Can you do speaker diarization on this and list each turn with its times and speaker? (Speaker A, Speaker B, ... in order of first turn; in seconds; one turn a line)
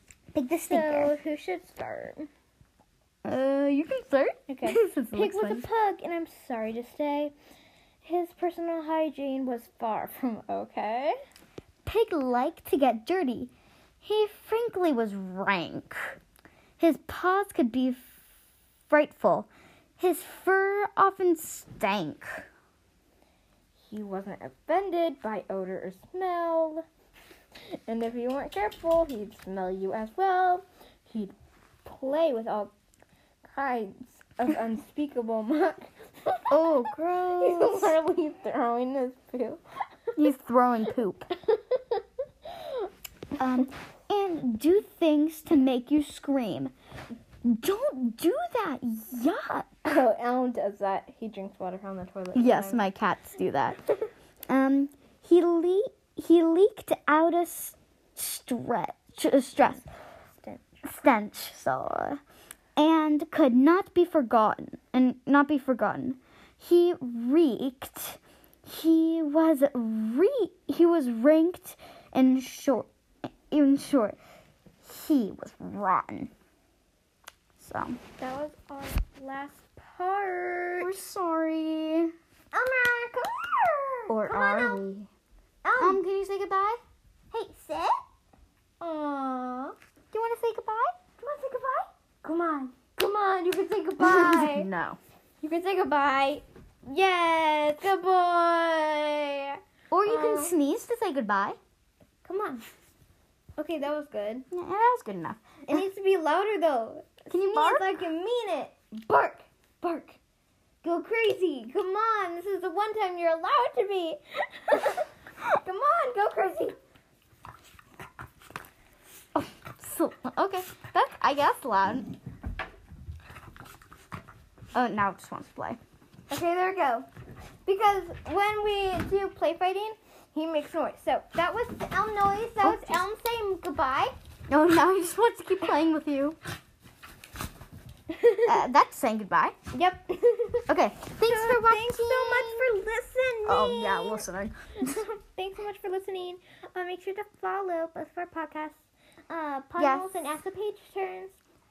Speaker A: 0.3-1.1
Speaker B: 0.7-2.3
Speaker A: 3.2-5.7
Speaker B: 4.5-7.3
Speaker B: 8.0-11.1
Speaker A: 11.8-13.5
Speaker A: 14.0-16.2
Speaker A: 16.8-18.1
Speaker A: 18.9-19.5
Speaker A: 20.0-22.4
Speaker B: 23.8-26.8
Speaker B: 27.9-32.7
Speaker B: 33.4-39.6
Speaker A: 36.5-37.9
Speaker A: 40.1-41.3
Speaker B: 41.3-42.0
Speaker A: 43.4-46.7
Speaker A: 47.4-49.7
Speaker B: 49.8-52.8
Speaker A: 52.3-53.8
Speaker A: 54.5-59.8
Speaker B: 59.6-60.8
Speaker A: 60.8-62.2
Speaker A: 62.8-72.9
Speaker A: 73.5-74.2
Speaker A: 74.8-76.3
Speaker A: 77.6-78.0
Speaker B: 78.2-80.9
Speaker A: 80.8-82.1
Speaker B: 82.5-84.8
Speaker A: 84.1-85.1
Speaker B: 85.6-86.0
Speaker A: 85.8-86.8
Speaker B: 87.3-88.0
Speaker B: 88.8-89.8
Speaker A: 90.1-91.0
Speaker B: 91.2-94.7
Speaker A: 94.0-95.0
Speaker B: 95.4-100.5
Speaker A: 99.9-101.6
Speaker B: 102.2-102.6
Speaker B: 103.6-104.5
Speaker A: 104.5-105.8
Speaker B: 105.6-110.2
Speaker A: 107.3-107.8
Speaker B: 110.8-116.8
Speaker A: 119.3-122.2
Speaker A: 124.7-125.8
Speaker B: 126.3-127.1
Speaker B: 127.7-134.1
Speaker A: 132.6-133.0
Speaker A: 134.5-136.4
Speaker B: 138.1-138.6
Speaker A: 138.4-139.5
Speaker B: 139.7-140.7
Speaker A: 140.7-142.7
Speaker B: 141.2-144.2
Speaker A: 143.5-145.0
Speaker B: 144.8-151.4
Speaker A: 149.8-150.0